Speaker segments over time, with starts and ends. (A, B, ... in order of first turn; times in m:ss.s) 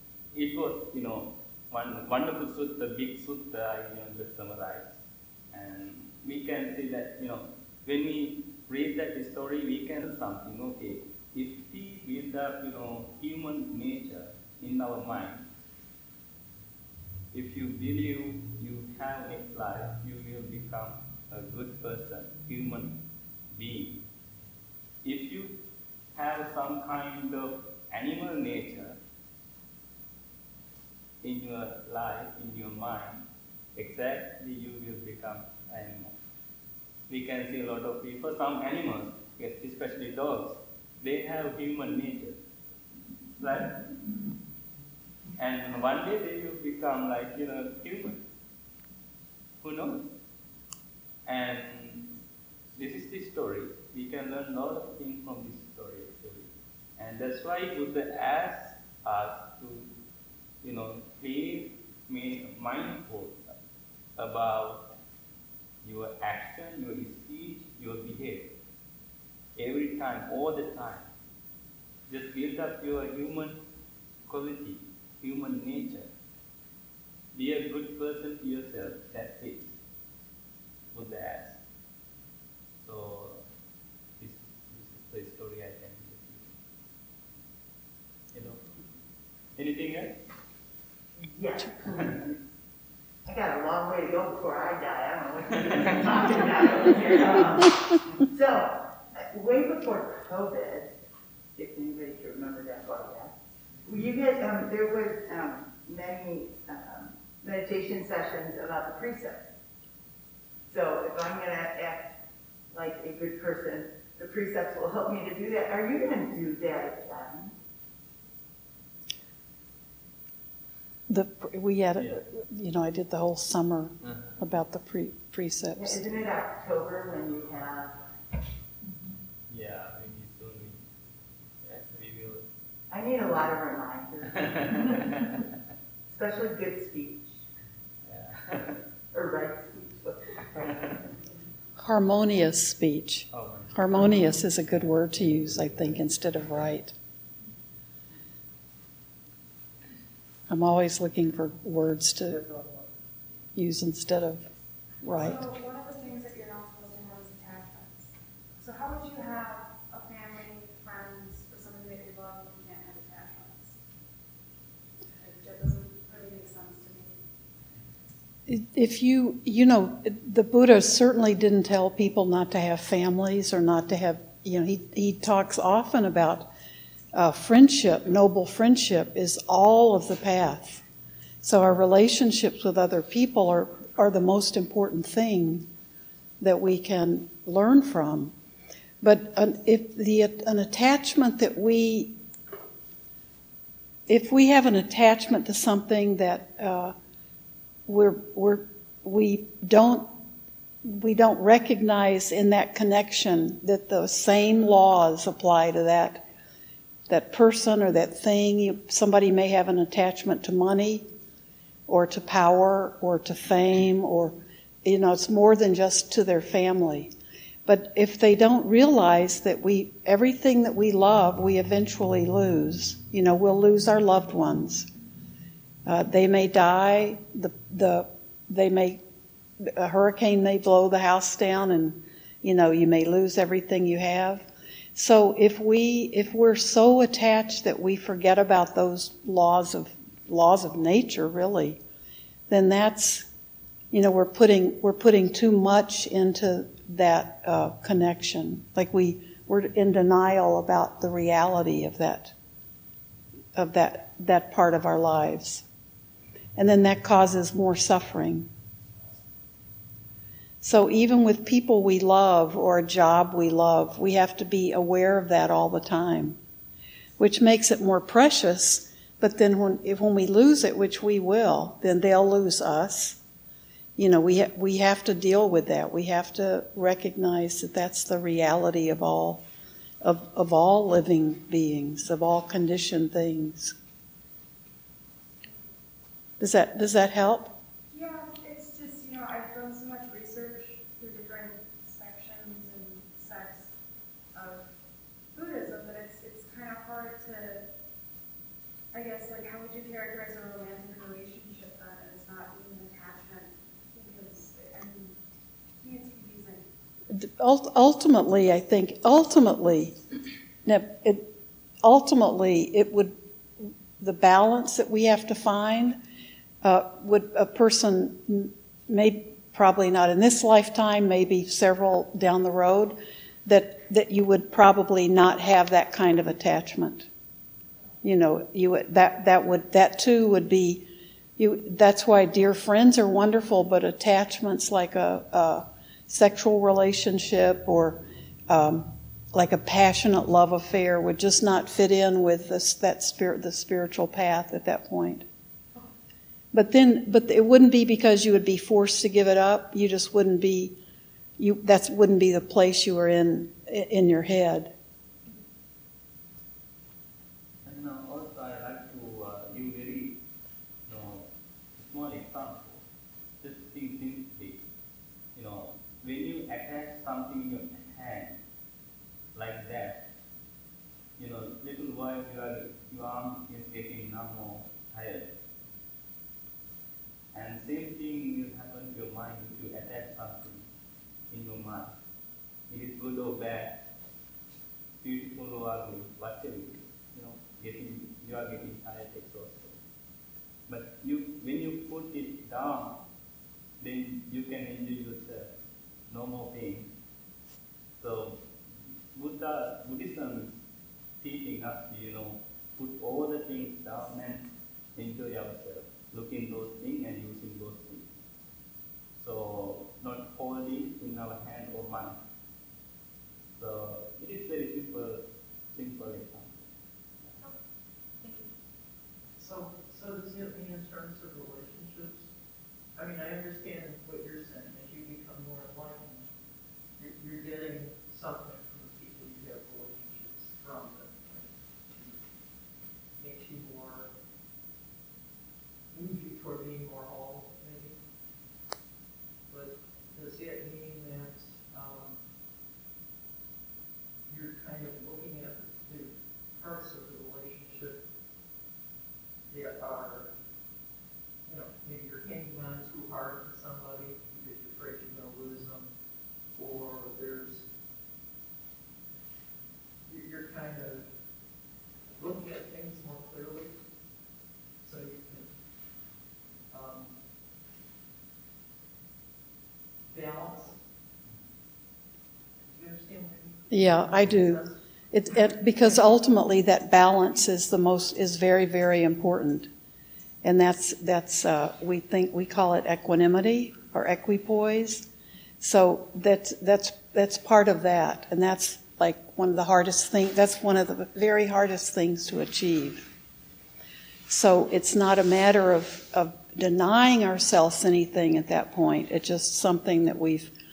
0:00.3-0:05.0 A
0:05.5-0:15.5 A
0:17.3-0:22.9 A
0:23.5-0:24.0 A
0:25.0-0:25.6 A
0:26.1-0:29.0 A
0:31.2-0:36.1 A
0:37.1-0:42.4 A
0:43.4-0:43.8 A
0:45.4-0:48.2 A
0:49.6-0:50.0 A
0:51.2-0:52.1 A
0:52.7-0:59.9 A
1:00.6-1:03.4 A
1:04.2-1:04.9 A
1:05.8-1:08.5 A
1:09.6-1:11.1 A
1:12.1-1:13.6 A
1:14.2-1:16.1 A
1:17.3-1:19.7 A
1:20.9-1:21.6 A
1:22.8-1:23.4 A
1:24.2-1:26.5 A
1:28.3-1:28.7 A
1:29.6-1:30.2 A
1:31.2-1:32.4 B
1:33.2-1:37.8 B
1:38.3-1:40.9 B
1:41.6-1:43.3 B
1:43.8-1:49.5 B
1:50.7-1:52.1 B
1:52.7-1:57.5 B
2:01.1-2:06.0 C
2:04.0-2:04.3 A
2:05.7-2:08.0 B
2:09.5-2:10.8 A
2:11.6-2:12.5 A
2:12.9-2:15.2 B
2:16.1-2:17.4 B
2:18.0-2:18.7 A
2:19.1-2:21.1 B
2:21.8-2:26.9 C
2:23.3-2:24.1 A
2:30.5-2:32.4 C
2:32.4-2:32.8 D
2:33.6-2:34.4 C
2:35.0-2:35.4 C
2:35.1-2:43.8 E
2:45.2-2:47.2 E
2:48.5-2:56.5 C
2:57.1-3:00.8 C
3:01.4-3:05.7 C
3:06.4-3:08.3 C
3:09.0-3:12.2 C
3:14.1-3:16.9 C
3:17.9-3:20.1 C
3:20.8-3:26.2 C
3:27.1-3:31.1 C
3:31.9-3:37.1 C
3:37.6-3:44.9 C
3:45.8-3:49.0 C
3:49.6-4:01.8 C
4:02.5-4:03.2 C
4:03.9-4:12.3 C
4:13.6-4:15.6 C
4:16.6-4:18.5 C
4:20.6-4:26.4 C
4:27.2-4:33.2 C
4:34.0-4:39.4 C
4:40.0-4:43.7 C
4:46.4-4:47.5 C
4:47.9-4:53.7 E
4:54.3-4:54.7 E
4:55.3-4:57.6 E
4:58.9-5:05.2 E
5:05.8-5:06.6 E
5:07.1-5:10.0 C
5:10.6-5:11.3 C
5:11.8-5:16.0 C
5:16.6-5:27.1 C
5:28.0-5:45.2 C
5:46.5-5:50.8 C
5:51.4-5:54.7 C
5:57.6-6:00.2 A
6:00.8-6:02.8 A
6:03.4-6:04.6 A
6:05.3-6:08.4 A
6:09.3-6:10.0 A
6:11.2-6:15.3 A
6:17.3-6:20.7 A
6:21.3-6:21.9 A
6:22.7-6:23.8 A
6:25.0-6:29.8 A
6:30.7-6:33.0 A
6:33.8-6:35.5 A
6:36.1-6:36.9 A
6:38.0-6:38.4 A
6:39.1-6:40.6 A
6:41.2-6:48.0 A
6:49.2-6:52.2 A
6:53.6-6:56.6 A
6:58.2-6:58.5 E
6:59.4-7:02.3 D
7:03.0-7:06.3 D
7:07.0-7:12.2 D
7:13.1-7:14.1 D
7:15.9-7:18.0 D
7:19.5-7:22.2 D
7:24.3-7:28.0 D
7:29.5-7:30.3 D
7:31.4-7:35.9 D
7:36.6-7:37.6 D
7:40.0-7:41.1 D
7:42.0-7:43.7 D
7:44.8-7:45.5 D
7:46.7-7:47.2 D
7:50.1-7:50.8 D
7:52.6-7:54.8 D
7:53.7-7:59.7 C
8:00.4-8:05.1 C
8:05.6-8:13.1 C
8:14.3-8:20.5 C